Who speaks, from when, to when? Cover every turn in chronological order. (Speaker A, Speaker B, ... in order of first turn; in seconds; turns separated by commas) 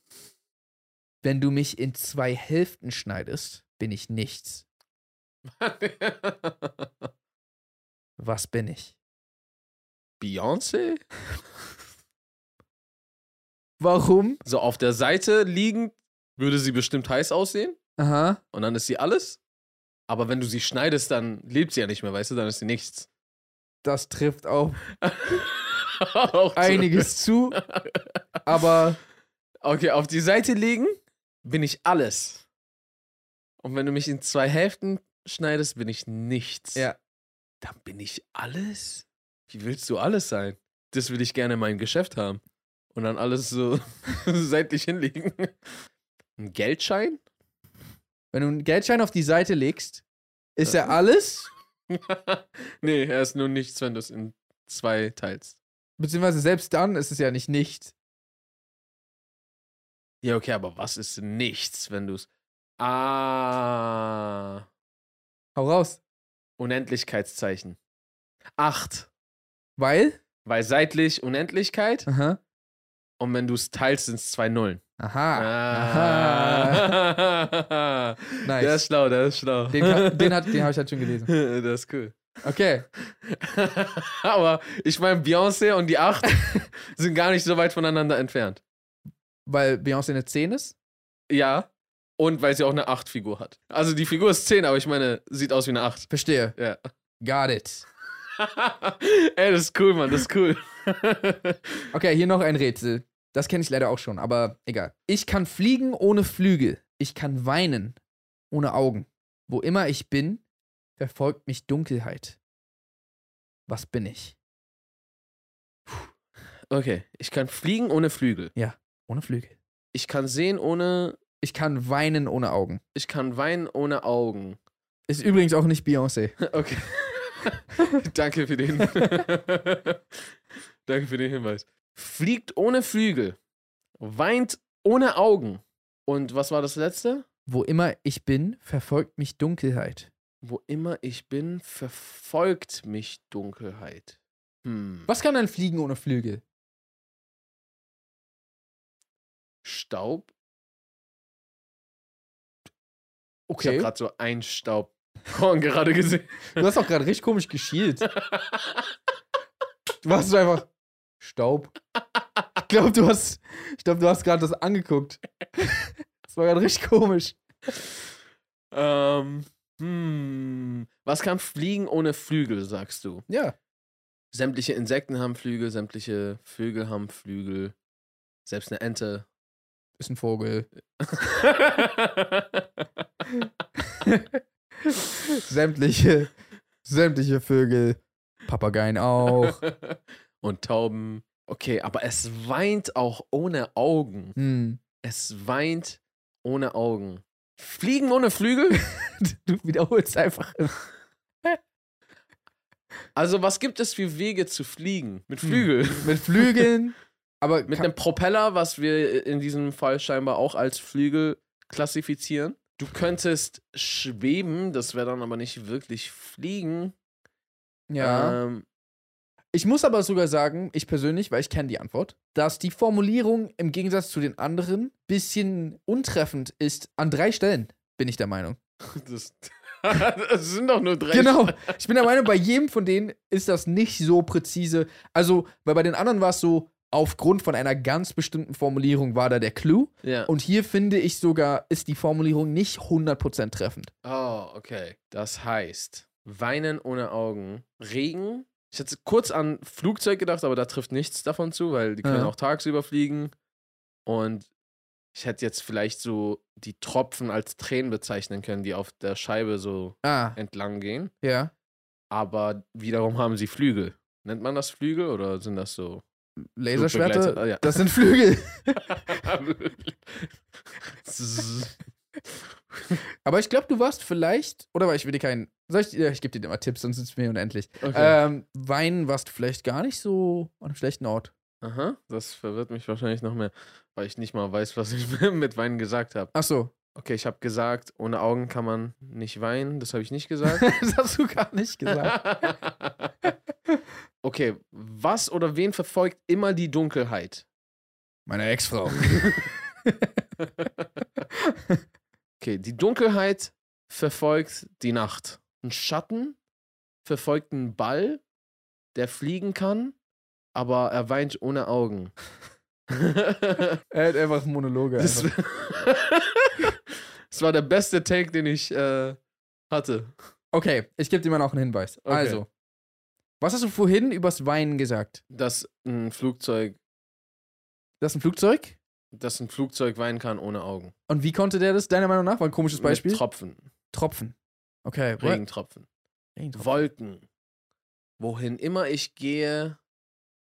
Speaker A: 1.2-4.6, Speaker B: 5.6-7.1, Speaker A: 8.2-8.9, Speaker B: 10.2-11.0, Speaker A: 13.8-14.4, Speaker B: 14.4-17.8, Speaker A: 18.0-18.4, Speaker B: 18.5-19.4, Speaker B: 20.1-23.1, Speaker A: 23.8-24.8, Speaker B: 25.0-28.1, Speaker A: 26.6-27.6, Speaker A: 28.4-29.0, Speaker B: 29.6-32.5, Speaker B: 33.6-36.9, Speaker B: 37.6-42.4, Speaker B: 42.9-45.5, Speaker B: 46.4-47.2, Speaker A: 48.3-50.0, Speaker A: 50.6-51.5, Speaker B: 50.6-50.9, Speaker B: 51.9-55.6, Speaker A: 56.0-57.9, Speaker B: 60.2-62.3, Speaker B: 62.8-64.6, Speaker A: 65.5-66.0, Speaker B: 66.6-67.8, Speaker B: 68.6-69.1, Speaker A: 69.8-70.2, Speaker B: 70.4-72.1, Speaker A: 72.1-72.4, Speaker B: 73.2-74.8, Speaker A: 75.0-76.9, Speaker B: 75.3-80.6, Speaker A: 78.4-78.8, Speaker A: 79.7-81.3, Speaker B: 81.2-82.3, Speaker A: 82.4-82.8, Speaker B: 83.1-88.6, Speaker A: 89.5-90.7, Speaker B: 91.3-91.7, Speaker B: 92.2-96.8, Speaker A: 96.1-96.5, Speaker A: 97.2-97.8, Speaker B: 98.4-101.8, Speaker A: 101.9-108.0, Speaker A: 108.5-110.4, Speaker A: 111.0-112.4, Speaker A: 113.7-114.3, Speaker B: 116.7-118.5, Speaker A: 118.5-119.6, Speaker B: 119.9-121.2, Speaker A: 121.4-122.8, Speaker B: 122.9-124.6, Speaker A: 125.1-126.4, Speaker B: 126.4-130.0, Speaker B: 130.8-133.4, Speaker B: 134.0-137.2, Speaker A: 137.5-140.1, Speaker B: 140.4-145.1, Speaker A: 145.1-146.4, Speaker B: 149.6-150.3, Speaker A: 153.5-153.9, Speaker B: 153.6-156.6, Speaker A: 156.6-158.1, Speaker B: 158.1-158.8, Speaker A: 160.0-160.7, Speaker A: 161.2-161.7, Speaker A: 162.6-167.4, Speaker B: 168.7-173.2, Speaker A: 173.3-173.5, Speaker B: 174.3-177.8, Speaker B: 178.4-179.3, Speaker A: 180.0-180.7, Speaker B: 181.0-182.6, Speaker A: 184.0-186.3, Speaker A: 186.8-189.6, Speaker B: 189.2-194.4, Speaker A: 194.4-194.8, Speaker B: 195.0-198.8, Speaker A: 198.7-200.8, Speaker B: 203.1-206.7, Speaker A: 205.4-207.9, Speaker B: 207.7-216.9, Speaker A: 217.9-218.4, Speaker B: 218.0-218.7, Speaker A: 219.5-228.6, Speaker B: 228.8-231.8, Speaker A: 231.1-243.9, Speaker B: 240.0-240.3, Speaker B: 244.0-253.3, Speaker A: 252.0-252.3, Speaker B: 254.1-254.5, Speaker B: 255.1-261.1, Speaker A: 260.0-260.4, Speaker A: 261.2-261.5, Speaker B: 262.1-266.0, Speaker A: 266.6-268.8, Speaker B: 266.7-267.9, Speaker B: 268.8-271.8, Speaker A: 273.2-281.3, Speaker B: 277.8-278.2, Speaker B: 281.6-286.3, Speaker A: 286.3-286.7, Speaker B: 286.9-290.7, Speaker A: 290.6-292.2, Speaker B: 291.9-293.1, Speaker B: 294.2-297.4, Speaker A: 298.3-300.1, Speaker B: 299.1-299.4, Speaker A: 301.4-301.8, Speaker B: 302.4-306.4, Speaker B: 307.0-308.2, Speaker B: 308.9-309.9, Speaker B: 310.5-312.1, Speaker B: 312.9-313.8, Speaker A: 313.9-315.3, Speaker B: 315.0-316.8, Speaker B: 317.3-319.2, Speaker B: 319.7-320.1, Speaker A: 320.5-322.5, Speaker B: 322.0-322.4, Speaker A: 323.4-325.2, Speaker B: 325.3-326.8, Speaker A: 328.0-328.8, Speaker B: 329.1-330.9, Speaker A: 331.1-333.2, Speaker B: 332.7-333.7, Speaker A: 333.9-335.4, Speaker B: 335.2-335.9, Speaker A: 336.4-336.8, Speaker B: 336.5-337.2, Speaker B: 338.2-339.8